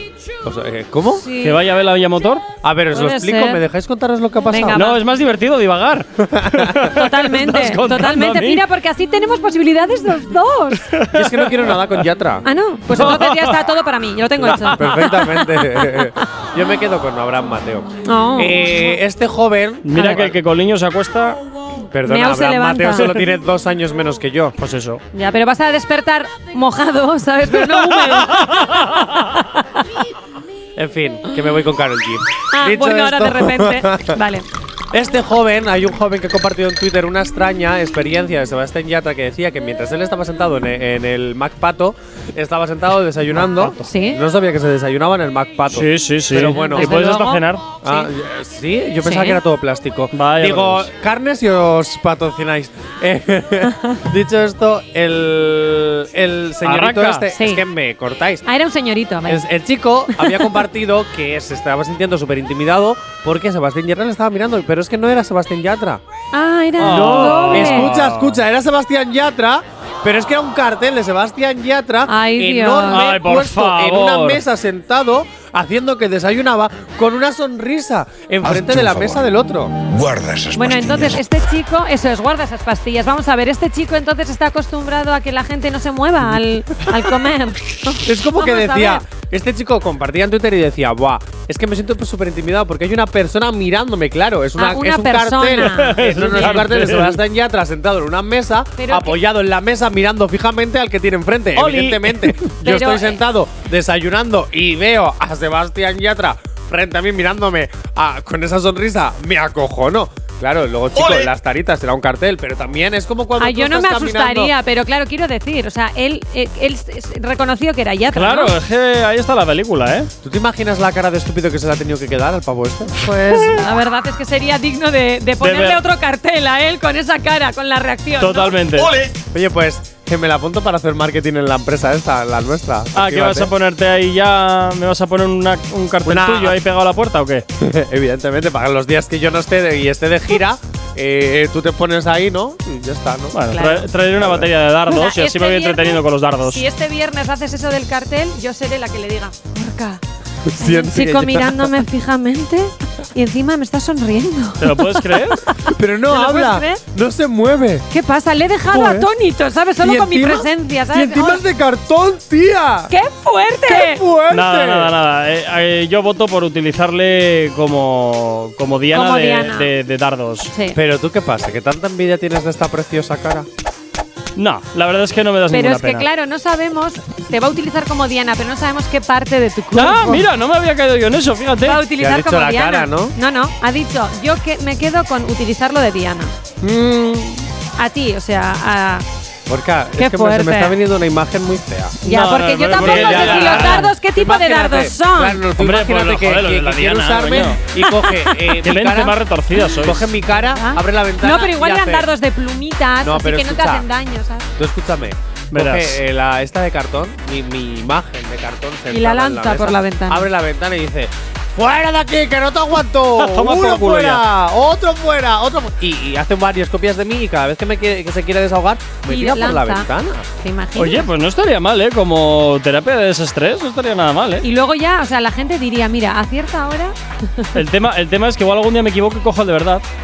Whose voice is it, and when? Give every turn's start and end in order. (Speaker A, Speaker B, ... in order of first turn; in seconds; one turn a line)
Speaker A: 0.4-1.3
Speaker B: 1.1-1.6
Speaker C: 1.4-2.5
Speaker A: 2.6-4.8
Speaker B: 2.9-3.6
Speaker B: 4.5-5.0
Speaker C: 4.7-8.6
Speaker A: 6.2-6.8
Speaker B: 6.8-10.9
Speaker C: 10.9-11.9
Speaker A: 11.1-13.2
Speaker B: 12.4-16.0
Speaker C: 12.9-13.6
Speaker C: 14.5-15.4
Speaker A: 14.5-20.4
Speaker B: 18.0-18.8
Speaker C: 19.8-21.4
Speaker B: 19.9-20.2
Speaker A: 21.9-24.5
Speaker B: 22.1-23.0
Speaker C: 23.0-23.2
Speaker C: 24.6-25.0
Speaker B: 25.1-29.8
Speaker C: 27.6-29.2
Speaker A: 30.8-34.2
Speaker B: 32.5-34.5
Speaker A: 34.9-47.0
Speaker C: 43.4-43.8
Speaker B: 43.8-44.2
Speaker C: 45.7-47.7
Speaker B: 46.4-48.1
Speaker A: 47.8-58.5
Speaker B: 49.0-49.4
Speaker C: 50.1-50.9
Speaker B: 53.7-54.0
Speaker C: 56.6-57.3
Speaker B: 57.3-57.6
Speaker B: 58.5-59.4
Speaker A: 59.3-66.0
Speaker B: 60.1-60.5
Speaker B: 66.3-67.9
Speaker C: 66.8-68.4
Speaker A: 66.8-79.7
Speaker B: 72.0-73.1
Speaker C: 72.9-74.4
Speaker D: 78.4-79.2
Speaker D: 79.8-81.1
Speaker B: 80.5-89.0
Speaker A: 88.0-114.5
Speaker B: 94.6-96.6
Speaker C: 95.8-97.2
Speaker B: 98.8-99.2
Speaker C: 101.5-102.4
Speaker B: 102.6-103.2
Speaker B: 113.4-118.5
Speaker C: 118.1-120.1
Speaker A: 120.2-123.1
Speaker B: 123.0-128.6
Speaker C: 125.4-125.8
Speaker C: 128.2-129.0
Speaker A: 129.0-133.5
Speaker C: 132.9-137.4
Speaker A: 136.1-136.6
Speaker A: 137.6-143.4
Speaker C: 143.3-146.6
Speaker B: 143.5-143.9
Speaker A: 144.2-144.5
Speaker B: 144.9-150.0
Speaker A: 150.4-151.8
Speaker B: 150.5-156.8
Speaker C: 154.6-155.4
Speaker A: 155.6-157.8
Speaker B: 157.9-161.4
Speaker A: 158.7-159.1
Speaker A: 159.8-162.9
Speaker B: 162.9-164.0
Speaker A: 163.7-164.9
Speaker C: 164.3-170.5
Speaker B: 168.9-169.7
Speaker B: 170.5-170.8
Speaker A: 170.7-173.5
Speaker C: 174.3-176.1
Speaker B: 175.5-180.2
Speaker C: 179.7-181.8
Speaker B: 181.6-186.3
Speaker A: 181.9-183.1
Speaker A: 186.6-187.5
Speaker B: 187.8-189.0
Speaker A: 189.5-192.0
Speaker B: 190.0-190.8
Speaker B: 192.0-195.4
Speaker C: 192.1-193.9
Speaker A: 192.8-199.2
Speaker C: 195.6-197.6
Speaker B: 197.8-198.5
Speaker C: 198.6-200.1
Speaker A: 199.8-202.1
Speaker B: 200.3-204.5
Speaker A: 203.0-203.8
Speaker A: 204.6-220.3
Speaker C: 205.5-206.0
Speaker B: 208.9-210.3
Speaker C: 213.2-214.2
Speaker B: 219.1-221.1
Speaker C: 220.8-224.4
Speaker B: 224.4-227.6
Speaker C: 227.5-229.8